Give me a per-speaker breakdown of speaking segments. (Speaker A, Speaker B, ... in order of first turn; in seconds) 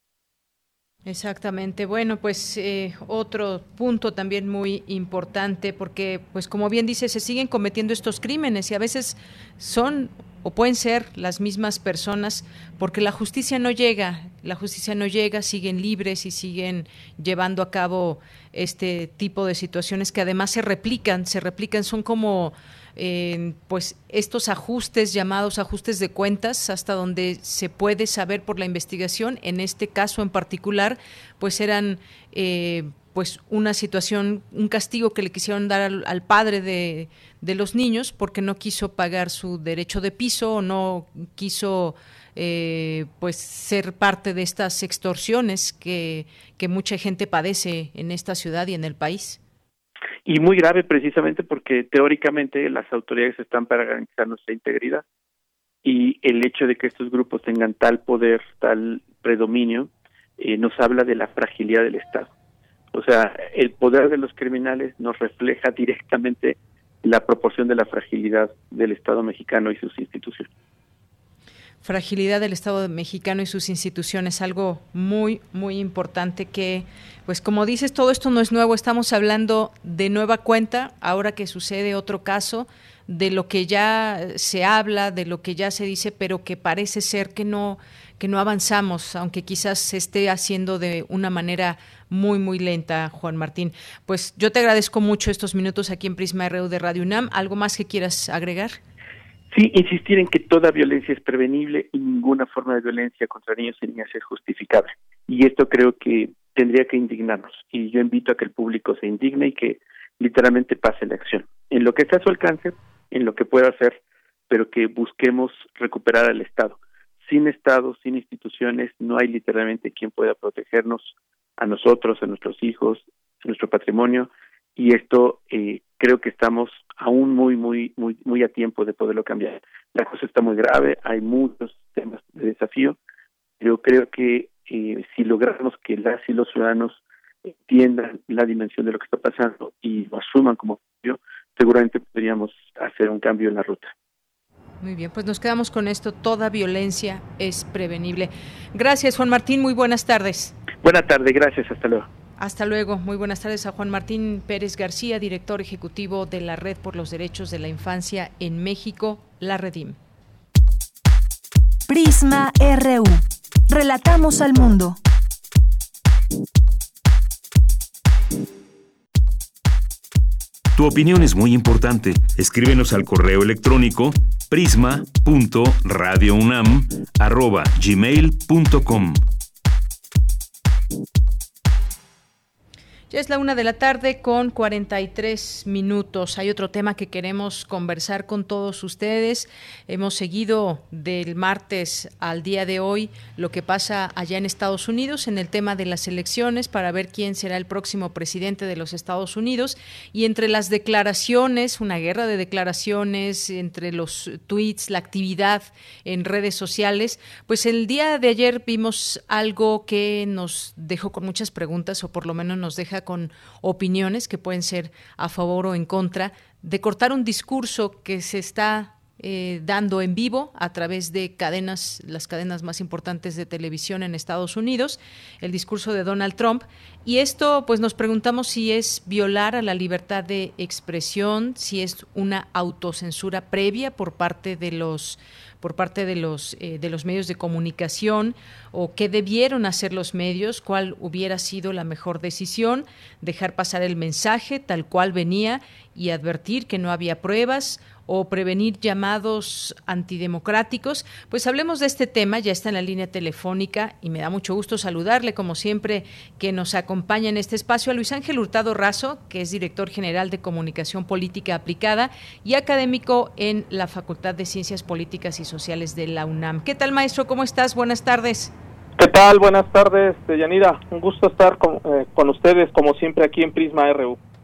Speaker A: 1.1-49.4, 71.8-98.8, 144.8-150.5, 152.4-160.0, 183.1-268.5
Speaker B: 50.3-55.0, 55.8-62.3, 62.9-70.5, 99.5-114.0, 114.5-133.0, 133.6-143.9, 150.8-152.1
Speaker C: 161.9-165.0
Speaker D: 170.8-179.2
Speaker E: 269.0-274.2